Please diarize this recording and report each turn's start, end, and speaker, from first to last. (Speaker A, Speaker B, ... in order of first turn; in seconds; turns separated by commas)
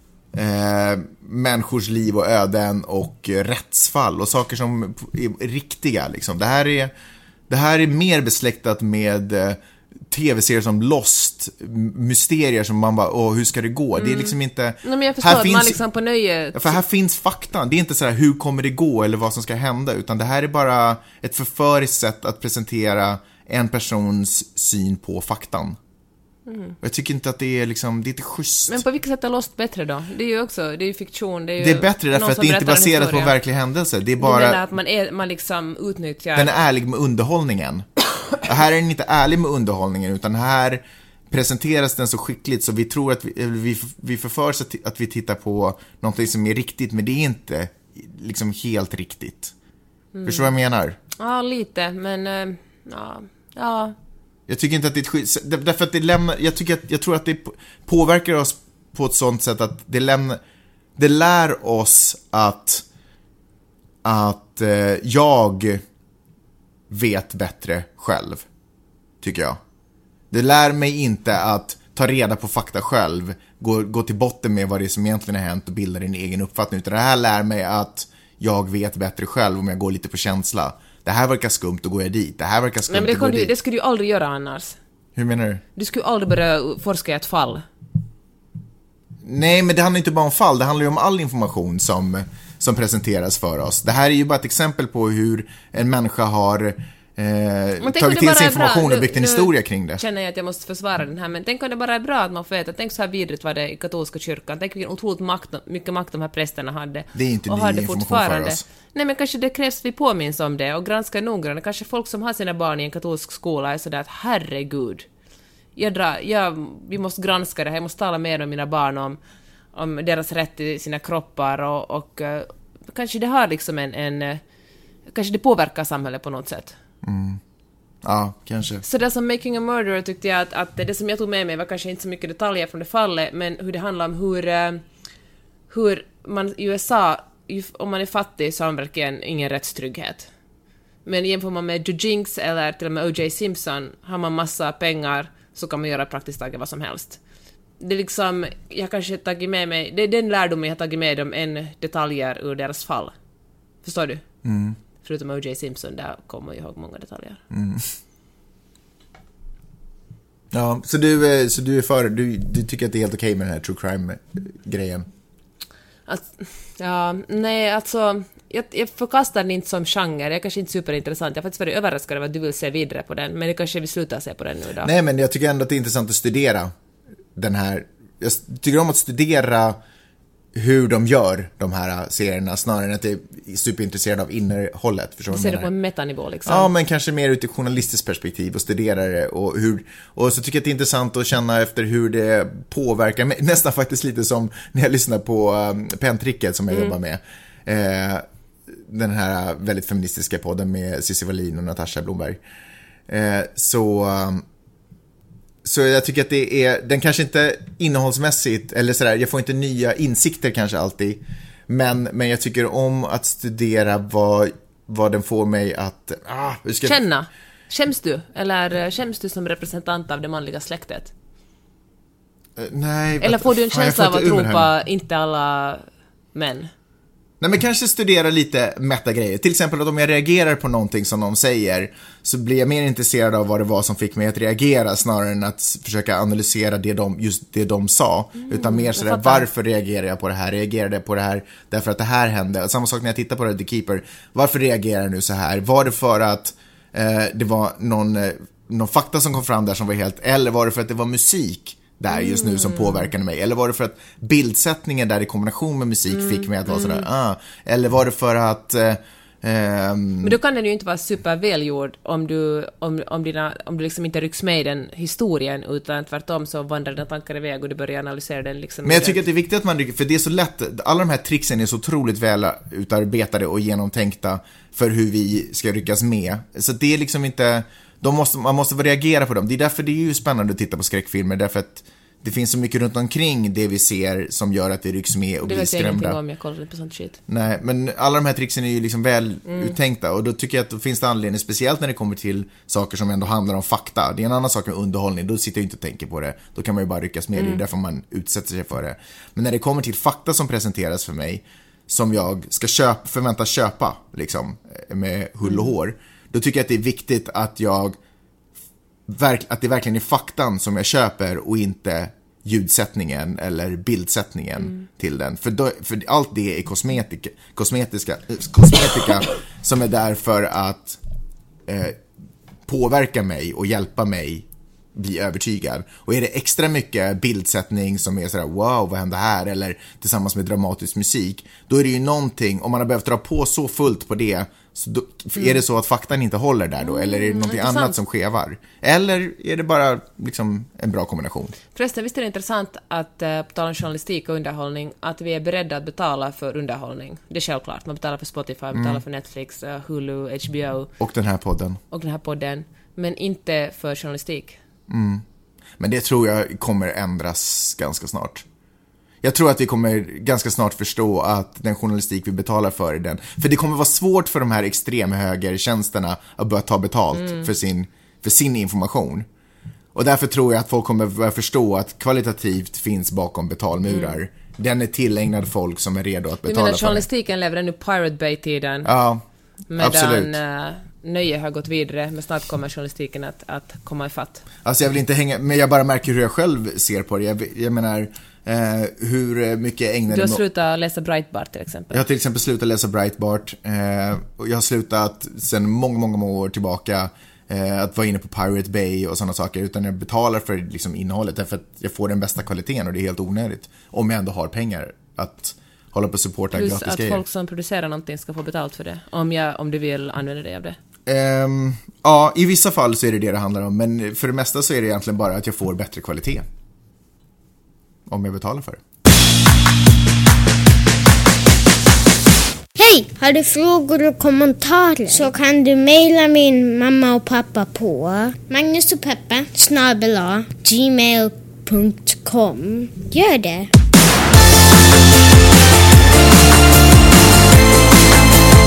Speaker A: 0.3-6.9, Speaker A: 7.5-9.6, Speaker A: 10.1-15.8, Speaker B: 14.0-16.8, Speaker A: 16.5-25.8, Speaker B: 26.5-26.8, Speaker A: 26.8-28.8, Speaker B: 28.7-33.3, Speaker A: 31.6-34.6, Speaker B: 34.2-36.5, Speaker A: 36.4-37.9, Speaker A: 38.4-49.5, Speaker B: 50.1-50.5, Speaker A: 50.2-51.0, Speaker B: 51.2-54.0, Speaker A: 54.5-60.4, Speaker A: 61.0-62.9, Speaker A: 64.0-65.8, Speaker A: 66.9-68.5, Speaker A: 69.2-69.6, Speaker A: 70.3-83.5, Speaker B: 82.9-84.8, Speaker A: 85.2-85.6, Speaker B: 85.8-87.6, Speaker A: 89.2-100.0, Speaker B: 97.8-115.1, Speaker A: 107.1-108.6, Speaker B: 115.8-119.2, Speaker B: 119.7-124.4, Speaker B: 125.1-126.8, Speaker A: 127.0-127.4, Speaker A: 128.0-128.8, Speaker B: 128.8-134.8, Speaker B: 135.7-140.3, Speaker B: 141.1-147.2, Speaker B: 147.8-153.2, Speaker B: 153.8-154.2, Speaker A: 154.4-154.8, Speaker B: 155.0-157.4, Speaker A: 157.5-157.9, Speaker A: 160.5-165.1, Speaker B: 166.1-174.9, Speaker A: 174.8-176.7, Speaker A: 177.3-179.8, Speaker A: 180.5-185.7, Speaker B: 185.3-186.7, Speaker A: 186.5-202.4, Speaker A: 203.1-204.4, Speaker A: 205.6-217.0, Speaker B: 216.8-221.1, Speaker A: 222.6-224.7, Speaker B: 223.2-226.7, Speaker A: 227.4-260.4, Speaker B: 238.4-239.5, Speaker B: 252.2-253.1, Speaker B: 256.7-257.1, Speaker B: 260.2-269.2, Speaker A: 268.8-286.2, Speaker B: 285.4-287.2, Speaker A: 287.3-308.0, Speaker B: 289.5-289.7, Speaker A: 309.1-321.0, Speaker A: 321.7-322.0, Speaker A: 322.7-341.6, Speaker B: 336.8-338.0, Speaker B: 341.8-350.9, Speaker A: 348.7-349.0, Speaker A: 351.0-351.8, Speaker B: 351.9-354.6, Speaker A: 354.9-355.2, Speaker A: 355.8-358.4, Speaker A: 359.2-369.3, Speaker B: 367.2-367.5, Speaker A: 369.9-377.1, Speaker B: 373.9-374.2, Speaker B: 376.4-378.9, Speaker A: 378.9-379.2, Speaker B: 379.7-384.4, Speaker A: 379.8-380.4, Speaker A: 384.6-390.4, Speaker B: 390.1-392.0, Speaker A: 391.9-407.2, Speaker B: 406.5-410.8, Speaker A: 411.1-416.5, Speaker A: 418.1-418.8, Speaker C: 422.8-433.7